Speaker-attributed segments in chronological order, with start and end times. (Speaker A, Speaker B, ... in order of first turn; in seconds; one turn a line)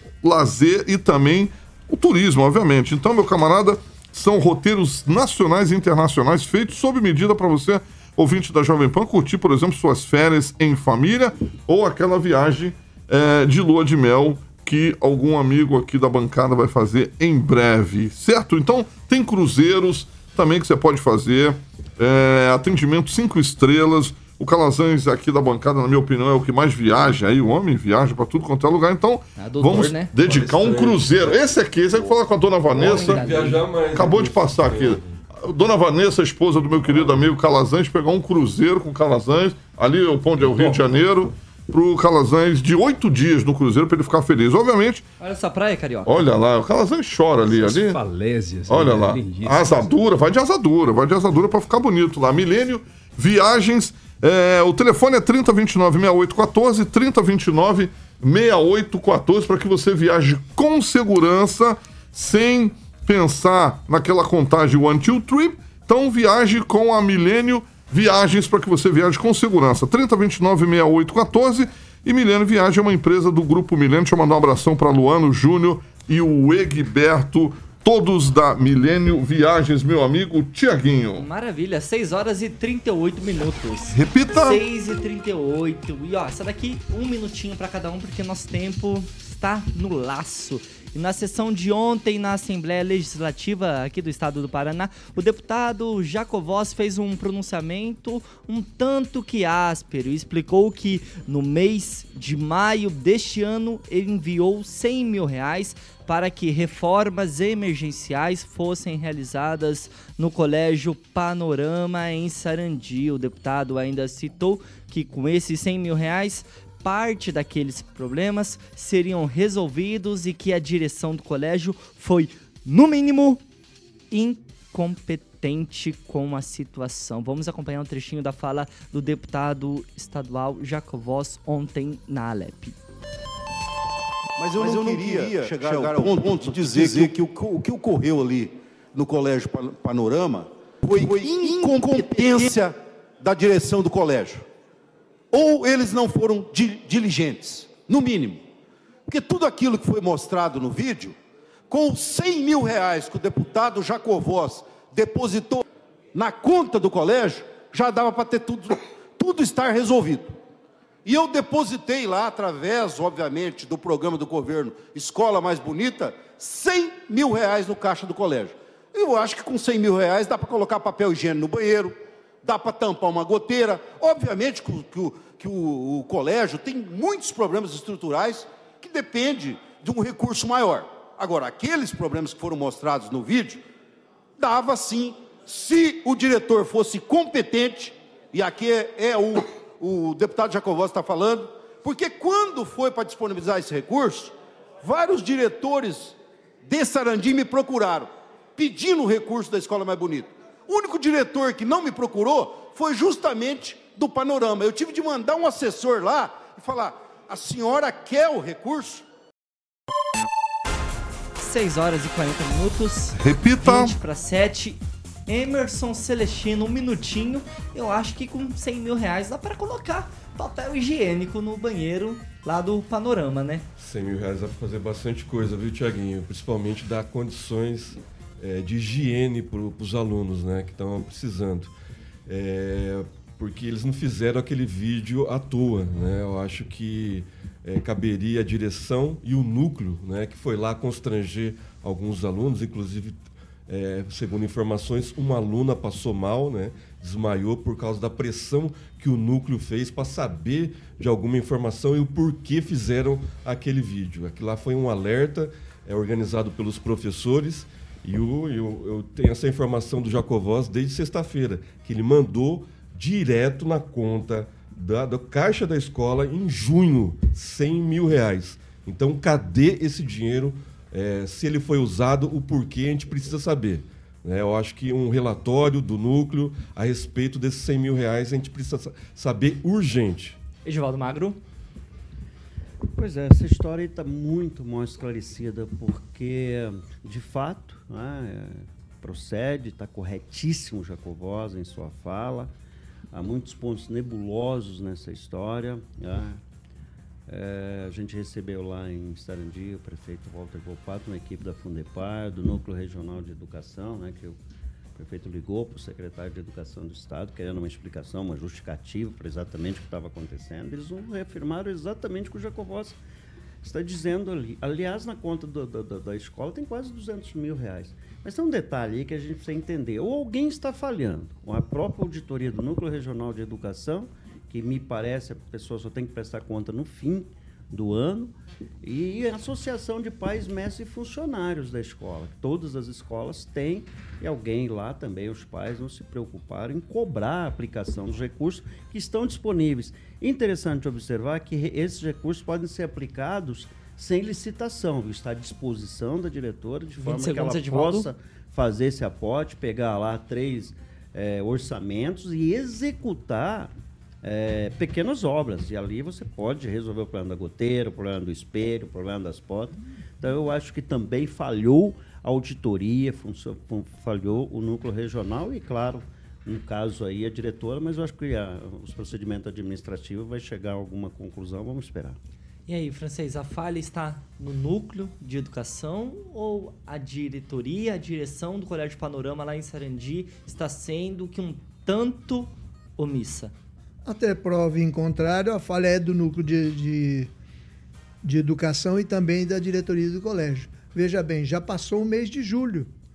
Speaker A: 0.2-33.4
Speaker B: 29.4-30.1
Speaker C: 30.2-31.4
Speaker C: 32.7-35.1
Speaker B: 32.8-33.6
Speaker A: 33.9-45.0
Speaker B: 45.2-46.2
Speaker A: 46.0-48.0
Speaker D: 47.5-49.9
Speaker A: 48.7-81.2
Speaker B: 81.2-123.4
Speaker A: 83.9-84.6
Speaker B: 124.1-132.7
Speaker E: 134.4-144.4
Speaker E: 145.3-148.4
Speaker E: 149.1-151.1
Speaker E: 151.7-160.3
Speaker E: 161.0-183.6
Speaker E: 184.4-209.0
Speaker B: 211.4-223.6
Speaker A: 213.2-213.9
Speaker C: 223.8-231.7
Speaker C: 232.3-280.4
Speaker B: 280.6-281.4
Speaker F: 282.9-292.5
Speaker F: 293.1-296.4
Speaker F: 297.3-304.4
Speaker F: 304.9-313.0
Speaker F: 313.6-353.7
Speaker B: 347.0-348.1
Speaker F: 354.2-372.2
Speaker B: 372.7-383.5
Speaker G: 384.0-387.3
Speaker G: 388.2-392.9